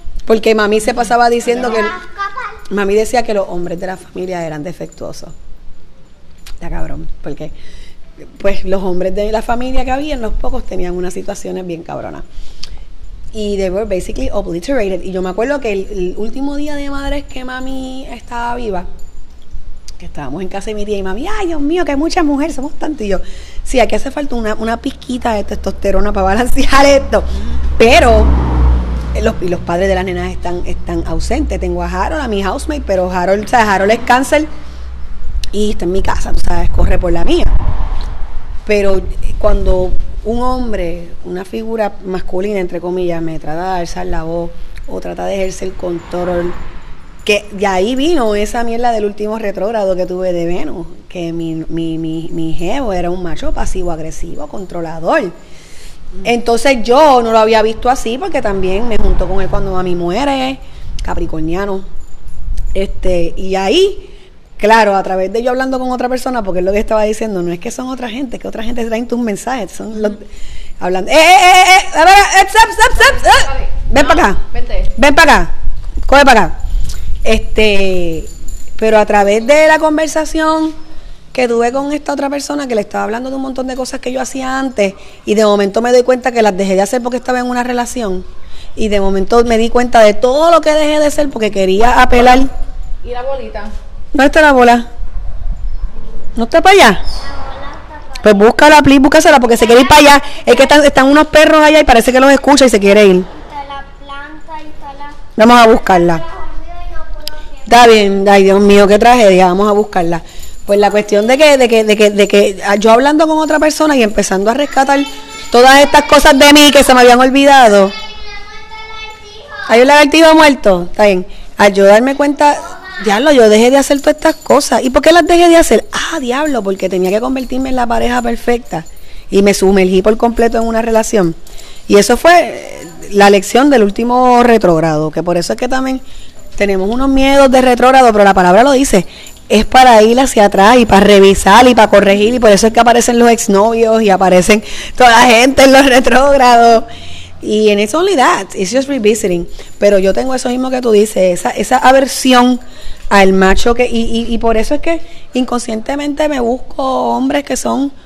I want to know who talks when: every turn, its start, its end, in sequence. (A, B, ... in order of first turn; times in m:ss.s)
0:00.3-0:02.0 A
0:01.4-0:01.8 B
0:01.6-0:02.6 C
0:02.7-0:05.3 A
0:06.6-0:07.5 A
0:08.4-0:12.2 A
0:13.3-0:18.9 A
0:20.0-0:28.4 A
0:29.2-0:34.5 A
0:35.5-0:37.6 A
0:38.7-0:46.6 A
0:47.2-0:55.3 A
0:56.2-1:01.9 A
1:02.8-1:10.3 A
1:10.8-1:14.4 A
1:12.9-1:14.9 B
1:15.0-1:15.5 A
1:16.1-1:16.6 A
1:17.2-1:20.8 A
1:21.3-1:28.2 A
1:28.8-1:32.5 A
1:33.0-1:33.8 B
1:34.1-1:34.9 A
1:36.4-1:37.0 A
1:37.2-1:38.6 C
1:38.2-1:43.3 A
1:39.4-1:40.8 C
1:43.3-1:45.2 C
1:45.4-1:46.2 A
1:45.8-1:48.2 C
1:47.7-1:58.0 A
1:58.0-1:59.9 C
1:59.7-2:11.4 A
2:02.7-2:03.0 C
2:11.9-2:16.0 A
2:16.6-2:26.9 A
2:27.4-2:37.9 A